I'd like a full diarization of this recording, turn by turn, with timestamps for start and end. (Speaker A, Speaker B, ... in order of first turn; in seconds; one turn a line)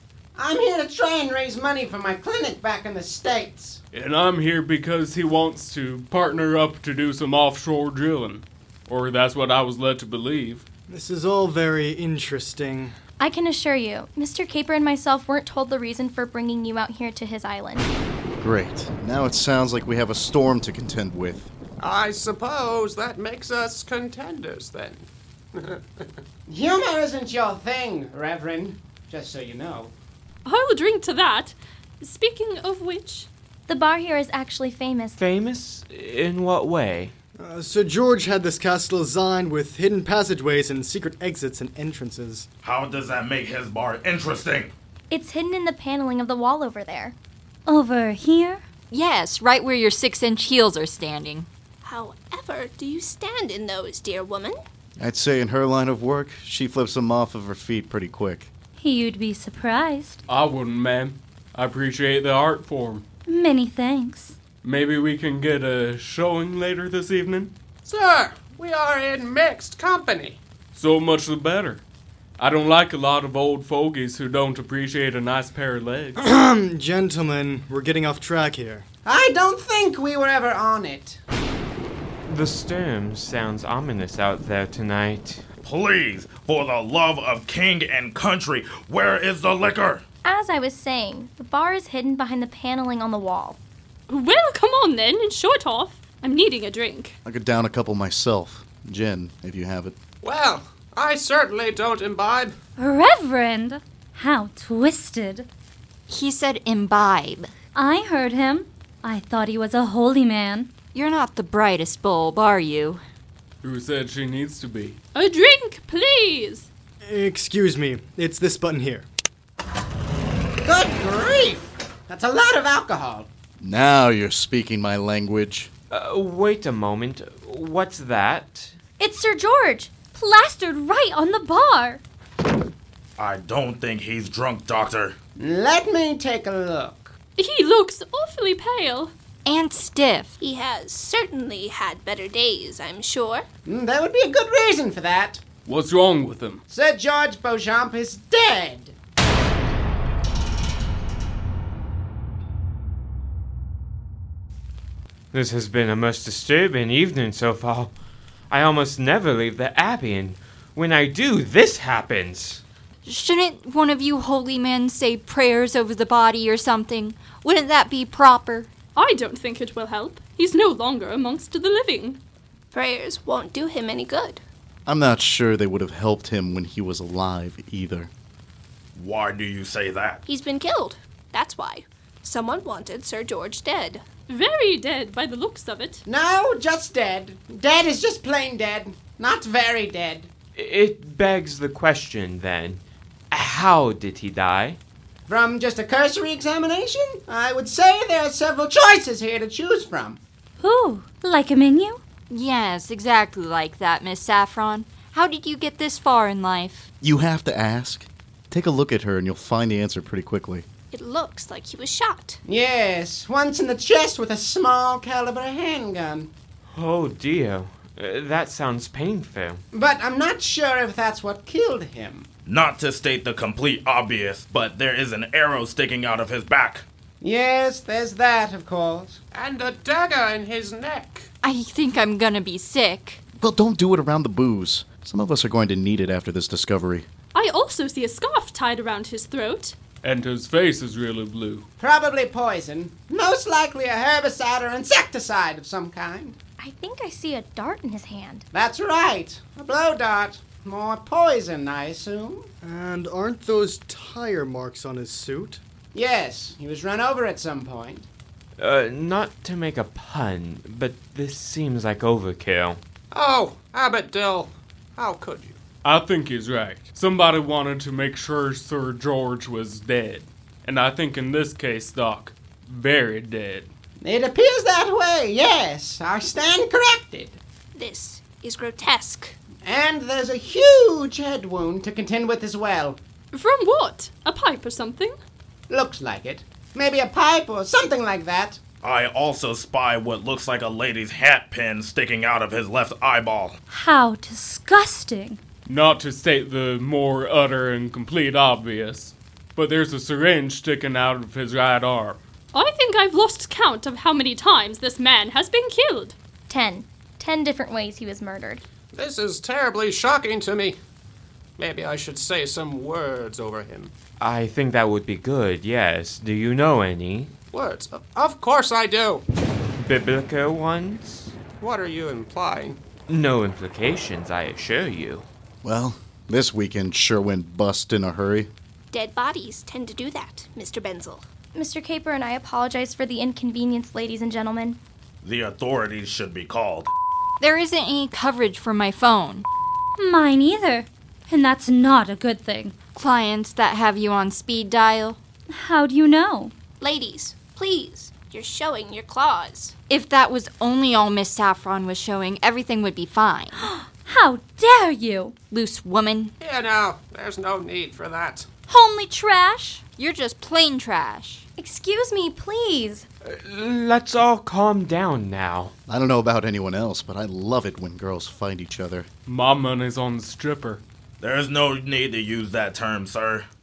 Speaker A: 0.3-3.8
Speaker B: 3.9-10.7
Speaker C: 10.9-12.9
Speaker D: 13.2-17.9
Speaker E: 18.4-21.5
Speaker F: 21.8-26.1
Speaker A: 26.5-29.9
Speaker G: 30.4-33.3
Speaker D: 33.7-35.1
Speaker H: 35.2-37.1
Speaker C: 37.4-42.5
Speaker I: 42.6-44.7
Speaker D: 45.1-47.1
Speaker J: 47.6-48.6
Speaker K: 48.9-51.5
Speaker L: 51.8-54.6
Speaker E: 55.0-58.5
Speaker J: 58.8-60.2
Speaker B: 60.3-63.0
Speaker J: 63.3-64.4
Speaker B: 64.6-67.5
Speaker F: 67.8-70.4
Speaker B: 70.7-71.8
Speaker B: 72.4-76.2
Speaker C: 76.2-78.8
Speaker A: 79.0-81.2
Speaker H: 82.3-85.4
Speaker I: 85.6-90.0
Speaker D: 90.2-93.6
Speaker G: 94.1-97.2
Speaker E: 97.2-99.9
Speaker F: 100.2-102.5
Speaker J: 102.8-105.5
Speaker K: 106.1-107.5
Speaker J: 107.7-110.7
Speaker K: 110.9-113.0
Speaker B: 113.6-115.0
Speaker G: 115.1-116.7
Speaker C: 117.0-119.1
Speaker A: 120.6-123.3
Speaker E: 123.6-125.7
Speaker H: 125.9-128.8
Speaker D: 129.0-130.1
Speaker J: 130.1-132.0
Speaker I: 133.2-135.2
Speaker A: 135.4-137.1
Speaker G: 137.4-139.1
Speaker K: 139.4-140.3
Speaker L: 140.4-143.4
Speaker A: 143.7-145.4
Speaker B: 145.6-146.6
Speaker A: 146.7-148.9
Speaker H: 155.3-157.9
Speaker H: 158.5-162.6
Speaker K: 163.0-168.7
Speaker G: 168.9-172.2
Speaker L: 172.7-174.4
Speaker E: 174.8-178.1
Speaker I: 178.9-180.2
Speaker L: 180.2-184.0
Speaker G: 184.3-186.0
Speaker A: 186.1-190.3
Speaker H: 190.5-194.8
Speaker A: 195.3-200.2
Speaker J: 200.6-202.0
Speaker K: 202.3-206.9
Speaker E: 207.0-210.7
Speaker L: 210.9-212.4
Speaker A: 212.4-216.3
Speaker H: 216.7-219.6
Speaker A: 219.7-222.3
Speaker I: 222.4-226.8
Speaker A: 227.2-229.2
Speaker F: 229.3-231.3
Speaker K: 231.4-233.2
Speaker E: 233.4-237.1
Speaker G: 237.3-239.8
Speaker B: 240.0-241.7
Speaker A: 241.8-246.3
Speaker D: 246.6-248.4
Speaker A: 248.5-252.5
Speaker C: 252.6-255.6
Speaker A: 255.9-258.1
Speaker H: 258.6-262.8
Speaker F: 263.1-265.6
Speaker B: 265.8-273.7
Speaker A: 274.0-277.4
Speaker L: 277.7-279.4
Speaker A: 279.6-283.0
Speaker G: 283.3-285.1
Speaker A: 285.7-288.6
Speaker I: 288.8-293.6
Speaker J: 293.7-295.4
Speaker B: 295.6-302.2
Speaker G: 302.5-306.1
Speaker D: 306.5-308.6
Speaker F: 308.9-310.8
Speaker F: 311.6-313.9
Speaker H: 314.2-317.3
Speaker F: 317.5-319.2
Speaker H: 319.8-321.3
Speaker F: 321.6-322.8
Speaker H: 323.1-325.2
Speaker E: 325.6-328.5
Speaker L: 328.9-331.3
Speaker D: 331.5-334.8
Speaker I: 335.2-336.9
Speaker K: 337.4-339.4
Speaker J: 340.0-342.7
Speaker K: 342.9-345.2
Speaker J: 345.5-346.5
Speaker L: 346.8-349.7
Speaker K: 349.9-353.5
Speaker J: 353.6-355.3
Speaker K: 355.5-356.3
Speaker F: 356.4-358.5
Speaker J: 358.7-359.8
Speaker K: 359.9-361.4
Speaker D: 361.6-363.1
Speaker H: 363.2-365.7
Speaker E: 365.9-369.1
Speaker B: 369.2-370.8
Speaker I: 371.2-373.4